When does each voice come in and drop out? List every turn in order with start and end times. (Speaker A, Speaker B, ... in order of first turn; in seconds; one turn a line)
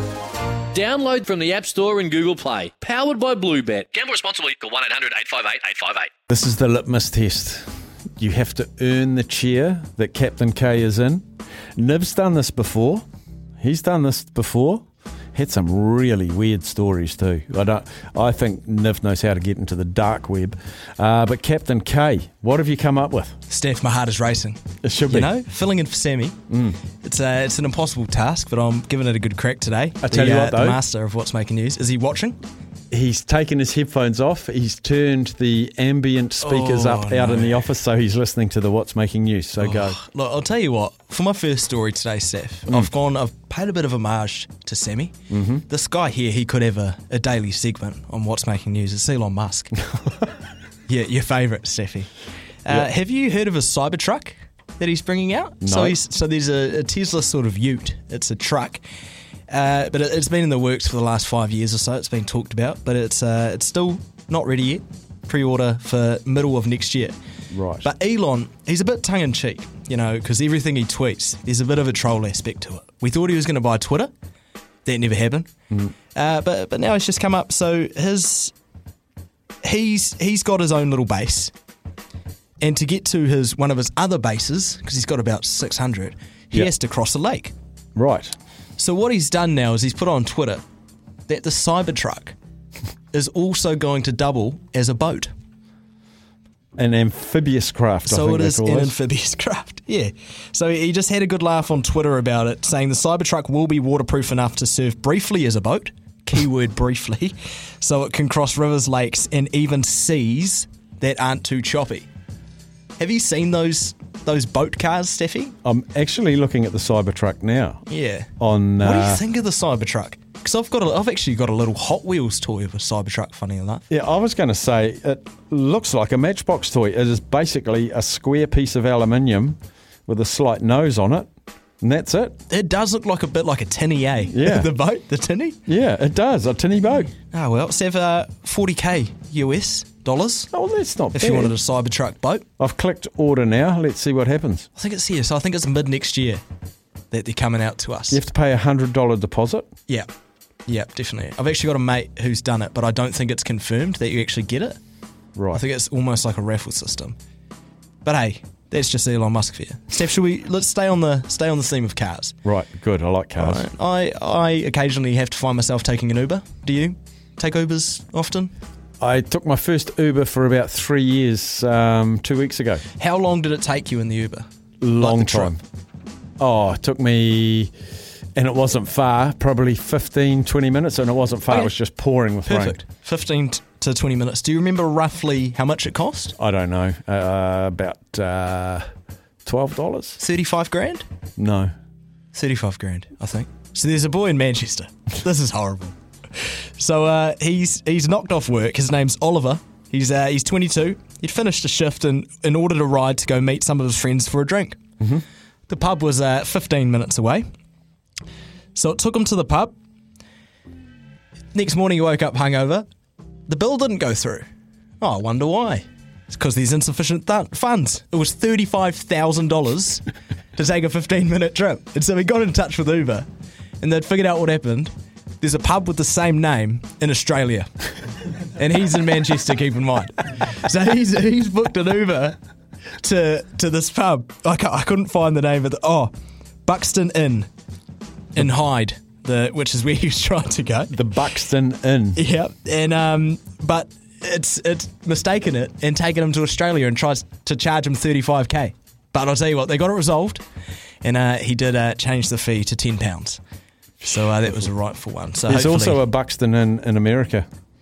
Speaker A: 0.4-6.1
Speaker B: 6.3-11.2
Speaker B: 11.8-13.0
Speaker B: 13.6-14.8
Speaker B: 15.3-23.4
Speaker C: 23.5-24.6
Speaker B: 24.8-25.3
Speaker C: 25.1-26.4
Speaker B: 26.5-26.8
Speaker C: 27.0-32.4
Speaker B: 30.0-30.8
Speaker B: 32.9-40.0
Speaker C: 36.4-37.7
Speaker C: 39.6-45.1
Speaker B: 45.3-45.6
Speaker C: 45.7-49.9
Speaker C: 50.9-52.1
Speaker C: 52.6-58.8
Speaker B: 55.6-56.0
Speaker C: 59.5-67.2
Speaker B: 67.5-67.9
Speaker C: 67.8-74.1
Speaker C: 74.8-75.5
Speaker C: 76.1-78.5
Speaker C: 79.6-81.5
Speaker C: 82.6-87.5
Speaker B: 88.0-88.3
Speaker C: 88.8-90.6
Speaker C: 91.3-92.4
Speaker C: 93.1-95.3
Speaker B: 96.8-98.9
Speaker C: 98.0-112.1
Speaker C: 113.0-115.5
Speaker B: 115.6-117.8
Speaker C: 117.9-118.3
Speaker B: 118.4-119.2
Speaker C: 118.8-123.8
Speaker B: 123.9-131.3
Speaker B: 131.8-132.4
Speaker C: 132.5-135.6
Speaker B: 134.3-134.7
Speaker B: 135.7-137.1
Speaker C: 137.3-140.5
Speaker B: 140.5-141.6
Speaker C: 141.1-142.4
Speaker B: 142.6-144.7
Speaker C: 144.8-146.4
Speaker C: 147.1-148.2
Speaker B: 148.1-149.7
Speaker C: 150.7-154.8
Speaker B: 155.4-155.6
Speaker C: 155.5-157.2
Speaker C: 158.0-162.3
Speaker B: 162.4-163.7
Speaker C: 163.4-168.5
Speaker B: 169.0-172.8
Speaker C: 173.0-174.5
Speaker B: 174.8-175.6
Speaker C: 175.0-175.6
Speaker B: 176.4-177.7
Speaker B: 178.4-182.8
Speaker C: 181.5-181.7
Speaker C: 182.4-186.3
Speaker B: 186.4-188.8
Speaker B: 189.4-190.2
Speaker C: 190.2-191.1
Speaker B: 191.4-191.7
Speaker C: 192.3-204.8
Speaker C: 205.7-207.4
Speaker C: 208.8-209.7
Speaker C: 211.5-212.9
Speaker C: 213.5-214.5
Speaker C: 215.0-223.3
Speaker C: 223.8-227.7
Speaker C: 228.6-232.4
Speaker C: 233.0-236.1
Speaker C: 236.7-237.5
Speaker C: 238.3-240.9
Speaker B: 240.9-242.2
Speaker C: 242.2-250.4
Speaker C: 251.0-253.4
Speaker C: 254.0-256.0
Speaker B: 255.5-257.5